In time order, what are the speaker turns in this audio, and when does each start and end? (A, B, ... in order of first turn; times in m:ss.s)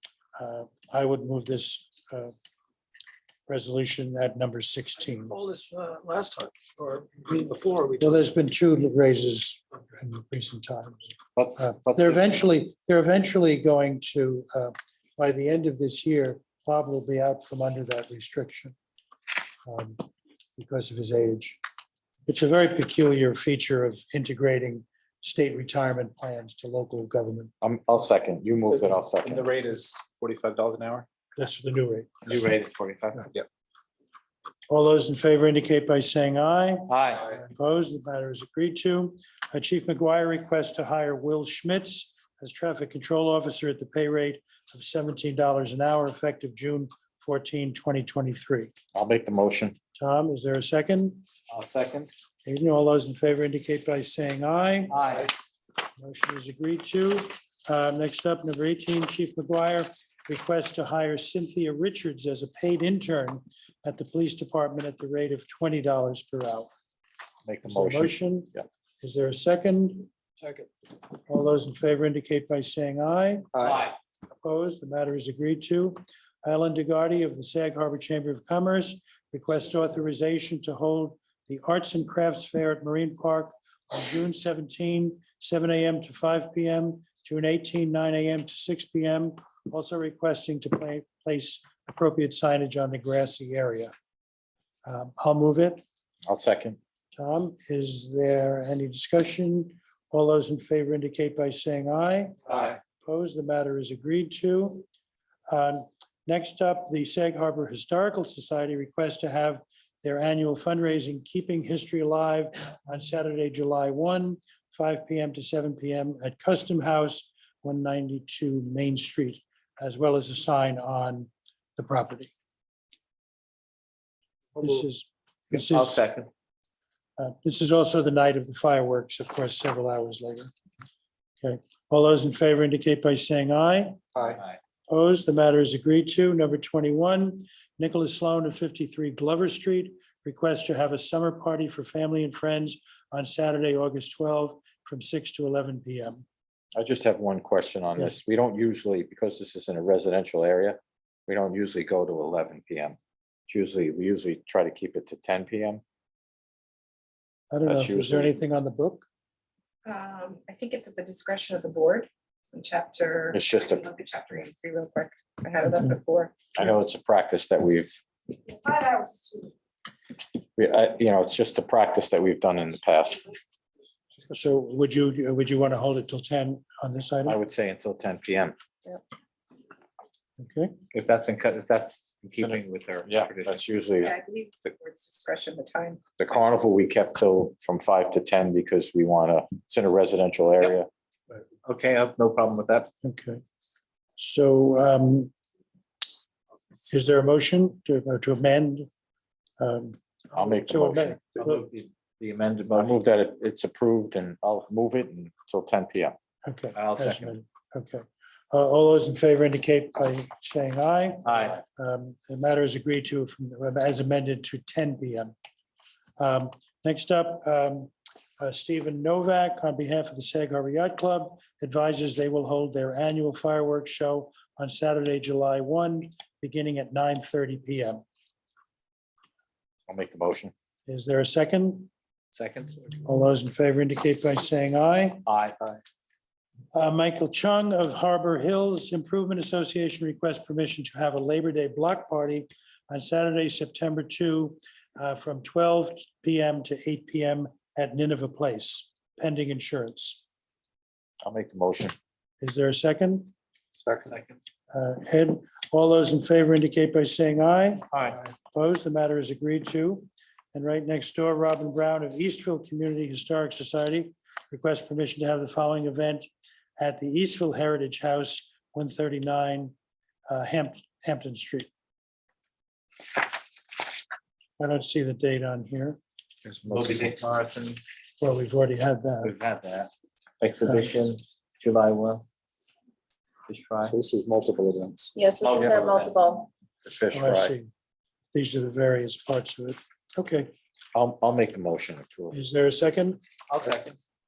0:00.4-0:02.3 A
0:03.5-0:05.4 A
0:05.5-0:07.8 B
0:08.0-0:18.8 A
0:11.4-0:12.1 C
0:19.6-0:20.1 A
0:20.6-0:21.6 A
0:22.3-0:27.5 A
0:27.6-0:29.5 D
0:28.7-0:31.1 E
0:31.4-0:32.5 A
0:32.3-0:33.3 C
0:34.7-0:48.7 A
0:36.9-0:37.3 C
0:48.9-0:49.8 D
0:50.0-0:51.2 A
0:51.5-0:52.1 C
0:52.5-0:55.3 A
0:54.9-0:55.3 C
0:56.0-1:06.7 A
1:07.4-1:08.6 D
1:07.6-1:13.5 A
1:13.5-1:13.8 E
1:13.6-1:14.0 C
1:14.4-1:33.9 A
1:34.8-1:35.8 A
1:36.3-1:36.8 D
1:37.2-1:44.8 A
1:45.5-2:02.3 A
2:04.6-2:06.0 A
2:05.6-2:06.3 C
2:07.2-2:10.5 A
2:11.4-2:14.0 A
2:14.2-2:14.4 E
2:14.2-2:14.6 C
2:14.9-2:26.2 A
2:26.8-2:33.0 D
2:33.5-2:35.8 D
2:37.5-2:39.1 A
2:37.7-2:38.3 D
2:39.8-2:46.5 F
2:43.3-2:43.9 D
2:46.6-2:48.0 D
2:48.5-2:49.5 F
2:50.6-2:53.3 D
2:54.3-2:57.4 A
2:57.2-2:58.6 D
3:00.4-3:00.8 A
3:00.9-3:03.6 C
3:02.4-3:04.1 D
3:04.0-3:06.0 F
3:06.2-3:10.9 D
3:11.6-3:12.9 C
3:13.0-3:13.4 A
3:14.2-3:15.3 A
3:16.9-3:18.9 A
3:19.6-3:21.6 A
3:20.4-3:21.2 D
3:21.4-3:23.0 C
3:22.7-3:26.2 D
3:26.5-3:35.4 A
3:26.8-3:27.3 C
3:31.2-3:31.6 C
3:36.2-3:48.0 A
3:49.9-3:50.5 D
3:50.9-3:51.9 A
3:52.3-3:53.0 C
3:53.0-3:55.3 A
3:55.3-3:55.7 C
3:56.7-4:10.2 A
4:11.2-4:12.0 D
4:12.4-4:13.3 A
4:13.7-4:14.1 E
4:14.1-4:14.4 C
4:14.7-4:26.3 A
4:17.9-4:18.2 C
4:26.8-4:29.8 A
4:30.3-4:31.7 A
4:34.6-4:36.0 A
4:36.6-4:37.8 C
4:38.2-4:39.3 A
4:39.2-4:42.2 C
4:43.5-4:44.0 C
4:45.2-4:46.5 F
4:45.4-4:46.3 C
4:46.8-4:47.6 D
4:47.1-4:47.7 A
4:48.3-4:50.5 A
4:50.9-4:52.4 D
4:52.3-4:53.2 A
4:53.5-4:54.0 C